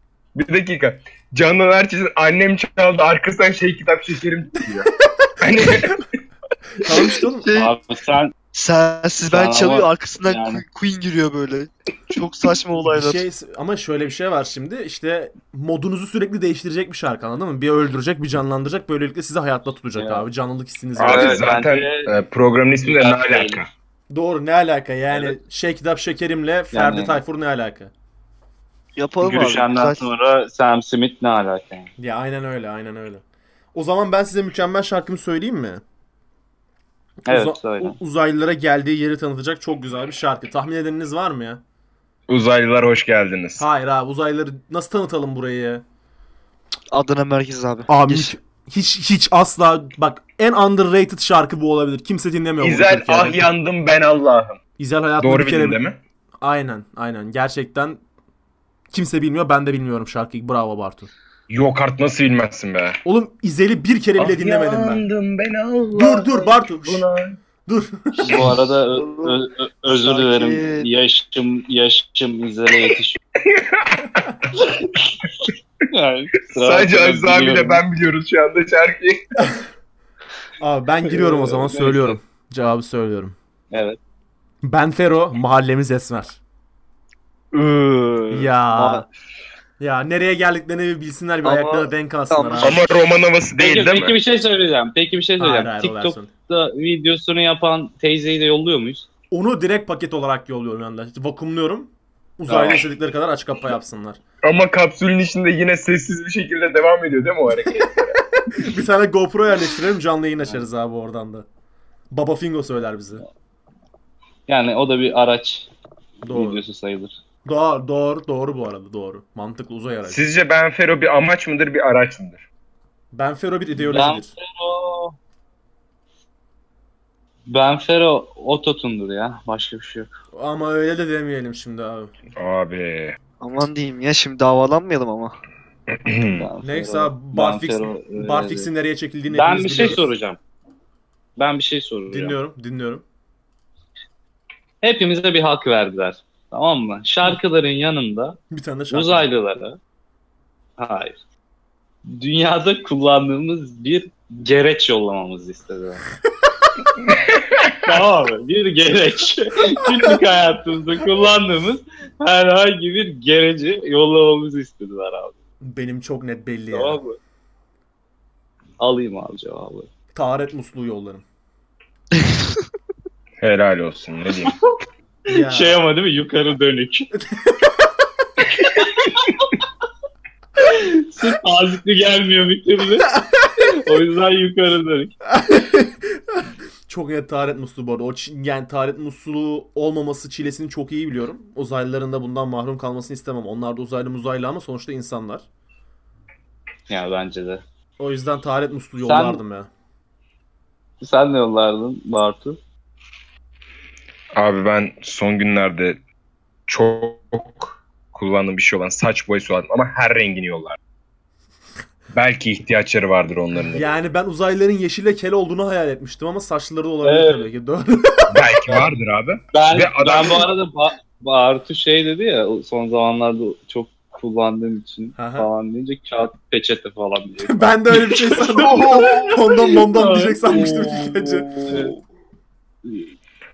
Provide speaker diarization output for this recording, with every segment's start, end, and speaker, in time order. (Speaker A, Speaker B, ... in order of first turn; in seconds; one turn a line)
Speaker A: 0.3-6.1
Speaker B: 6.8-7.5
Speaker C: 7.4-7.7
Speaker D: 7.5-8.3
Speaker C: 8.5-13.2
Speaker D: 9.3-10.6
Speaker B: 12.9-21.5
Speaker D: 20.0-20.2
Speaker A: 21.0-23.7
Speaker D: 21.0-22.1
Speaker D: 22.8-23.6
Speaker B: 24.1-27.9
Speaker D: 26.7-27.2
Speaker C: 29.0-30.1
Speaker D: 29.2-31.9
Speaker B: 32.0-33.2
Speaker B: 33.7-35.8
Speaker D: 37.3-38.0
Speaker B: 37.3-41.6
Speaker A: 42.3-43.6
Speaker B: 43.6-45.8
Speaker C: 46.9-48.3
Speaker B: 47.9-53.5
Speaker A: 52.6-54.6
Speaker B: 54.8-55.8
Speaker A: 55.2-56.0
Speaker B: 56.4-58.0
Speaker B: 58.9-61.1
Speaker A: 61.5-63.0
Speaker B: 63.0-65.0
Speaker A: 64.2-67.4
Speaker B: 65.9-67.1
Speaker B: 67.7-68.5
Speaker D: 68.2-73.2
Speaker A: 68.3-68.5
Speaker C: 68.9-70.9
Speaker A: 73.4-74.7
Speaker D: 74.6-74.9
Speaker A: 75.3-75.5
Speaker D: 75.9-77.8
Speaker A: 76.5-79.5
Speaker B: 80.6-83.3
Speaker D: 81.0-82.2
Speaker D: 83.7-84.0
Speaker B: 84.6-86.4
Speaker C: 87.5-89.1
Speaker B: 88.3-89.1
Speaker B: 89.8-92.8
Speaker C: 91.4-92.9
Speaker A: 92.6-94.2
Speaker D: 93.6-99.1
Speaker B: 95.4-96.3
Speaker B: 99.3-104.2
Speaker D: 102.5-102.8
Speaker A: 104.4-108.2
Speaker B: 108.5-111.5
Speaker B: 112.1-113.2
Speaker D: 114.5-115.7
Speaker B: 116.2-116.6
Speaker D: 116.2-117.1
Speaker B: 117.5-120.2
Speaker A: 120.1-122.5
Speaker B: 123.1-124.3
Speaker D: 123.8-125.2
Speaker D: 127.5-130.1
Speaker B: 130.3-132.1
Speaker A: 132.4-133.2
Speaker C: 133.4-135.3
Speaker A: 135.9-136.5
Speaker D: 136.3-138.7
Speaker B: 136.6-140.1
Speaker D: 139.3-140.4
Speaker D: 141.4-142.4
Speaker B: 142.1-143.0
Speaker D: 144.8-148.4
Speaker B: 148.5-149.3
Speaker D: 148.9-149.8
Speaker D: 150.8-151.2
Speaker D: 152.1-156.0
Speaker A: 157.0-157.9
Speaker D: 157.8-165.3
Speaker B: 165.6-167.0
Speaker D: 166.7-167.2
Speaker D: 168.8-169.9
Speaker B: 170.2-171.2
Speaker A: 173.4-174.5
Speaker D: 174.5-177.1
Speaker B: 175.3-175.8
Speaker B: 177.2-177.6
Speaker D: 178.6-179.5
Speaker D: 180.6-185.1
Speaker B: 183.2-183.5
Speaker B: 185.3-195.4
Speaker D: 196.9-197.6
Speaker B: 198.0-199.7
Speaker D: 199.0-199.4
Speaker D: 201.0-202.6
Speaker A: 204.3-206.0
Speaker A: 206.7-210.8
Speaker A: 212.1-213.9
Speaker B: 213.6-218.3
Speaker D: 217.0-217.4
Speaker A: 218.3-220.5
Speaker D: 219.5-231.9
Speaker B: 225.2-225.5
Speaker B: 227.4-231.5
Speaker D: 232.8-233.1